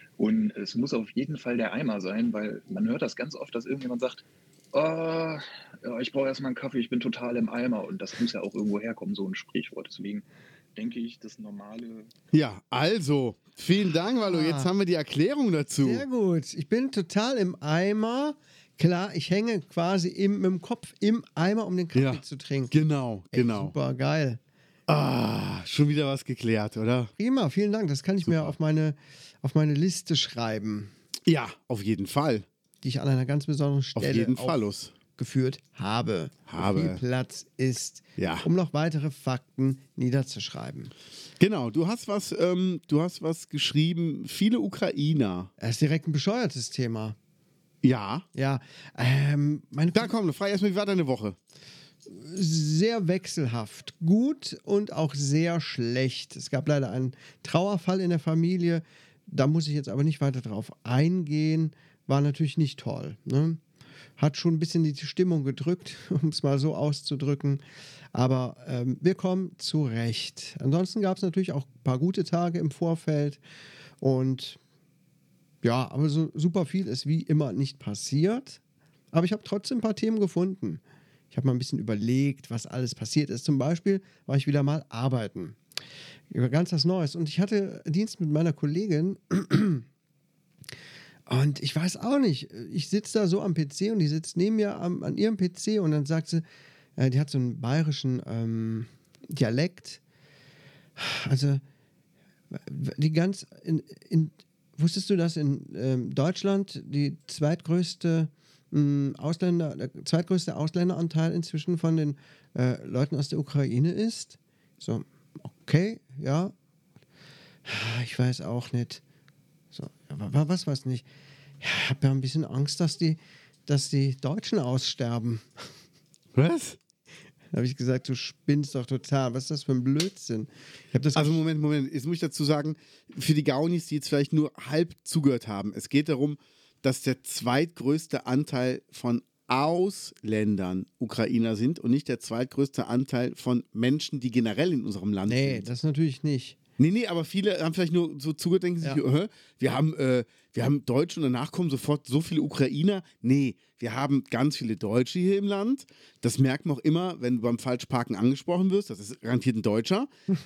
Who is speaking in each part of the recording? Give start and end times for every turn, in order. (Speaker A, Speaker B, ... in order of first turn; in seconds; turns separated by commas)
Speaker A: 0.2-10.2, Speaker A: 10.8-12.1, Speaker B: 12.3-16.1, Speaker C: 14.2-14.7, Speaker C: 15.8-22.8, Speaker B: 21.9-23.7, Speaker C: 23.3-24.4, Speaker B: 24.9-27.1, Speaker C: 27.2-30.9, Speaker B: 28.2-28.6, Speaker B: 31.2-32.5, Speaker C: 32.8-34.6, Speaker B: 33.9-34.9, Speaker C: 35.1-40.9, Speaker B: 36.5-37.0, Speaker B: 38.2-38.5, Speaker B: 41.4-45.5, Speaker C: 45.6-47.2, Speaker B: 47.8-48.2, Speaker C: 48.4-50.1, Speaker B: 49.9-51.4, Speaker C: 52.1-63.6, Speaker C: 64.2-67.6, Speaker C: 68.1-73.4, Speaker C: 74.0-74.6, Speaker C: 75.6-78.6, Speaker C: 79.1-85.6, Speaker C: 86.3-89.9, Speaker C: 91.3-96.4, Speaker C: 97.0-100.0, Speaker C: 101.0-101.6, Speaker C: 102.5-116.5, Speaker C: 117.7-119.0, Speaker C: 119.7-121.0, Speaker C: 121.6-125.7, Speaker B: 126.3-126.8, Speaker C: 127.5-131.4, Speaker B: 131.1-145.7, Speaker C: 145.3-146.6, Speaker B: 146.8-160.1